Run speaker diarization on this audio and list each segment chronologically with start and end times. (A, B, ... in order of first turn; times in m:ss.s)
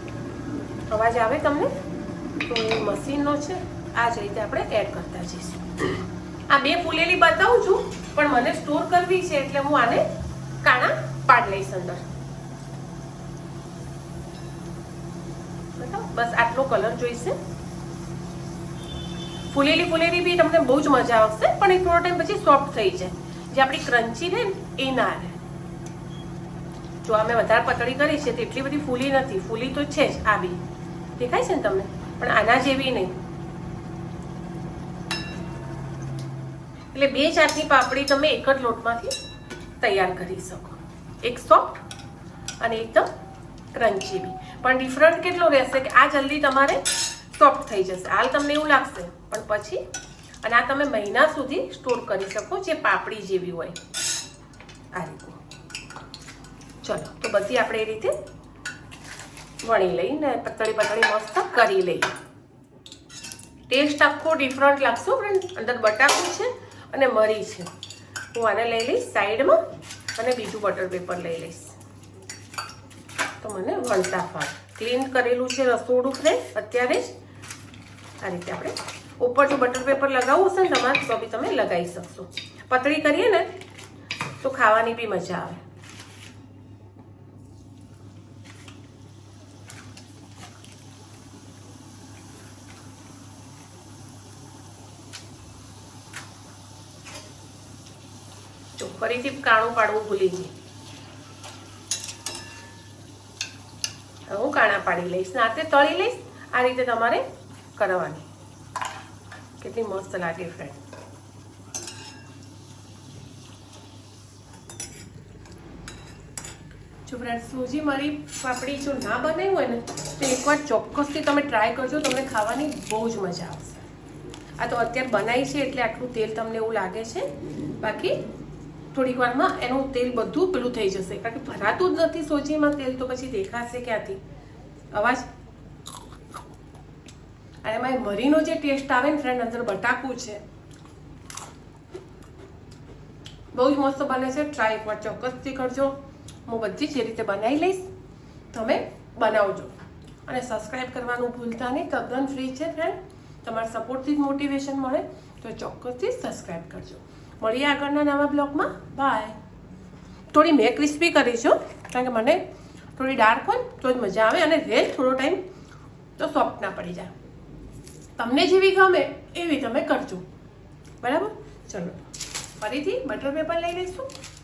0:00.9-0:01.7 A
0:02.4-0:10.0 A
0:10.6-0:12.1 A
0:15.8-0:17.4 A
0:19.5-0:25.4 A
0:27.0-0:30.6 A
0:31.2-0:33.1 A
0:36.9-0:39.1 A
0:39.8-0:41.8 A
0:42.6-0:43.1 A
0:43.7-0:49.8 A
0:50.4-0:53.8 A
0:54.9-0:55.4 A
0:56.8-0:58.1 A
0:59.6-1:02.1 A
1:03.7-1:07.7 A
1:08.3-1:09.6 A
1:10.2-1:11.7 A
1:13.4-1:17.1 A
1:18.2-1:23.5 A
1:24.4-1:25.6 A
1:38.8-1:40.5 A
1:44.3-1:47.2 A
1:47.8-1:48.2 A
1:49.6-1:50.8 A
1:57.0-2:03.8 A
2:04.6-2:07.2 A
2:07.8-2:08.2 A
2:08.9-2:14.2 A
2:14.9-2:15.3 A
2:17.6-2:20.4 A
2:23.5-2:25.9 A
2:26.4-2:27.9 A
2:28.5-2:39.3 A
2:40.3-2:42.4 A
2:43.0-2:45.4 A
2:46.2-2:47.1 A
2:48.2-2:50.2 A
2:51.0-2:52.0 A
2:52.6-2:54.1 A